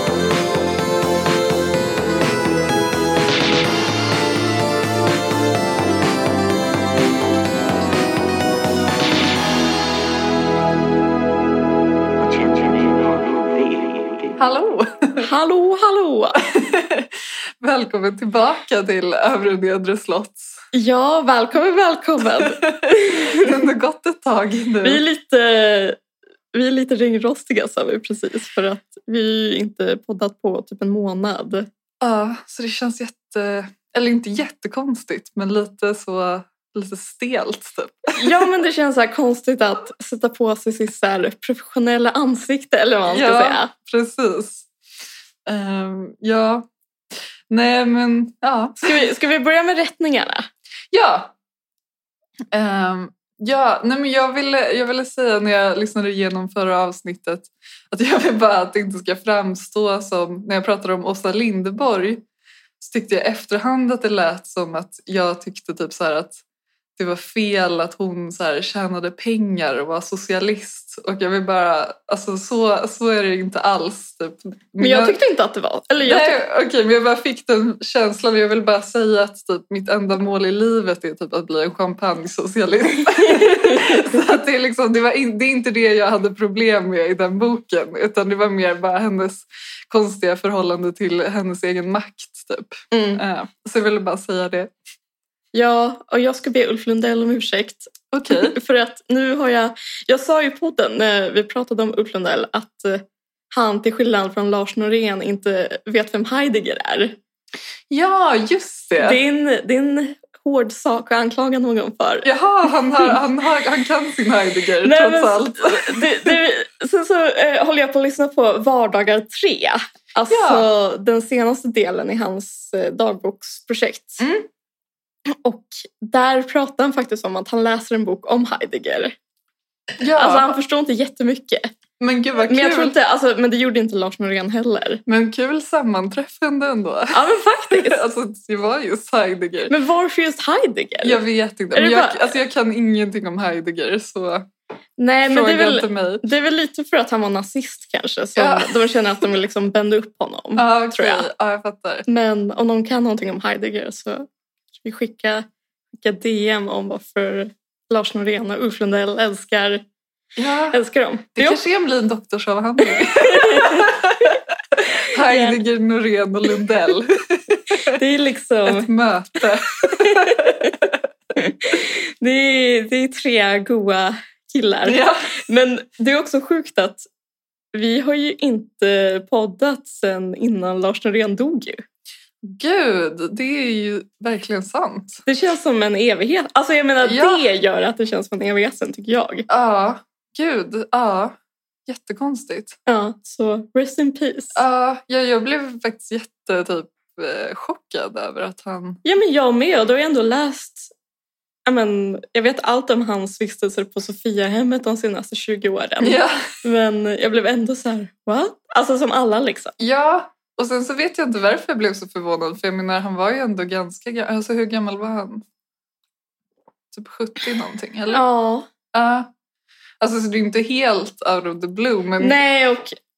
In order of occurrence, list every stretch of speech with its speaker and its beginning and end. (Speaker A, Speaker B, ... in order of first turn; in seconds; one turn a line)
Speaker A: 12.2-14.4
Speaker B: 14.4-15.3
Speaker C: 15.2-16.4
Speaker B: 16.4-17.1
Speaker B: 17.6-20.6
Speaker C: 20.7-23.5
Speaker B: 22.4-25.0
Speaker C: 24.8-26.0
Speaker C: 26.5-31.7
Speaker B: 32.0-38.3
Speaker C: 38.1-43.7
Speaker B: 43.1-44.7
Speaker B: 45.5-46.7
Speaker B: 47.5-48.9
Speaker C: 48.8-50.5
Speaker B: 50.9-51.3
Speaker B: 52.5-62.2
Speaker B: 62.8-66.4
Speaker B: 67.0-75.2
Speaker C: 74.8-76.4
Speaker B: 76.0-94.7
Speaker C: 83.3-84.1
Speaker C: 92.9-93.2
Speaker C: 95.5-107.2
Speaker B: 98.1-98.5
Speaker B: 107.9-109.2
Speaker C: 109.0-112.3
Speaker B: 112.2-116.3
Speaker C: 114.8-124.2
Speaker B: 120.3-120.7
Speaker B: 124.2-124.5
Speaker C: 125.3-129.2
Speaker B: 130.0-130.5
Speaker C: 130.1-131.7
Speaker B: 132.0-132.9
Speaker C: 132.5-135.0
Speaker B: 135.1-139.7
Speaker C: 137.1-138.0
Speaker C: 139.7-141.2
Speaker B: 141.0-144.5
Speaker C: 141.7-142.3
Speaker C: 145.0-151.3
Speaker B: 145.3-146.2
Speaker B: 148.4-148.8
Speaker B: 150.6-152.1
Speaker C: 152.1-154.3
Speaker C: 154.8-159.8
Speaker B: 160.4-160.8
Speaker C: 160.7-161.6
Speaker B: 161.4-167.9
Speaker C: 162.9-164.4
Speaker C: 165.2-165.6
Speaker C: 167.9-168.9
Speaker B: 168.7-171.0
Speaker C: 169.8-170.8
Speaker C: 171.4-177.1
Speaker B: 174.8-175.3
Speaker C: 177.7-181.8
Speaker B: 182.4-185.2
Speaker C: 185.3-189.5
Speaker B: 187.0-187.4
Speaker B: 189.5-192.8
Speaker C: 192.9-194.6
Speaker B: 194.6-199.0
Speaker C: 199.0-200.9
Speaker C: 201.7-209.8
Speaker B: 206.0-206.5
Speaker B: 209.8-215.4
Speaker B: 216.9-218.2
Speaker C: 218.1-218.7
Speaker B: 218.9-219.3
Speaker B: 220.0-222.4
Speaker C: 222.2-223.0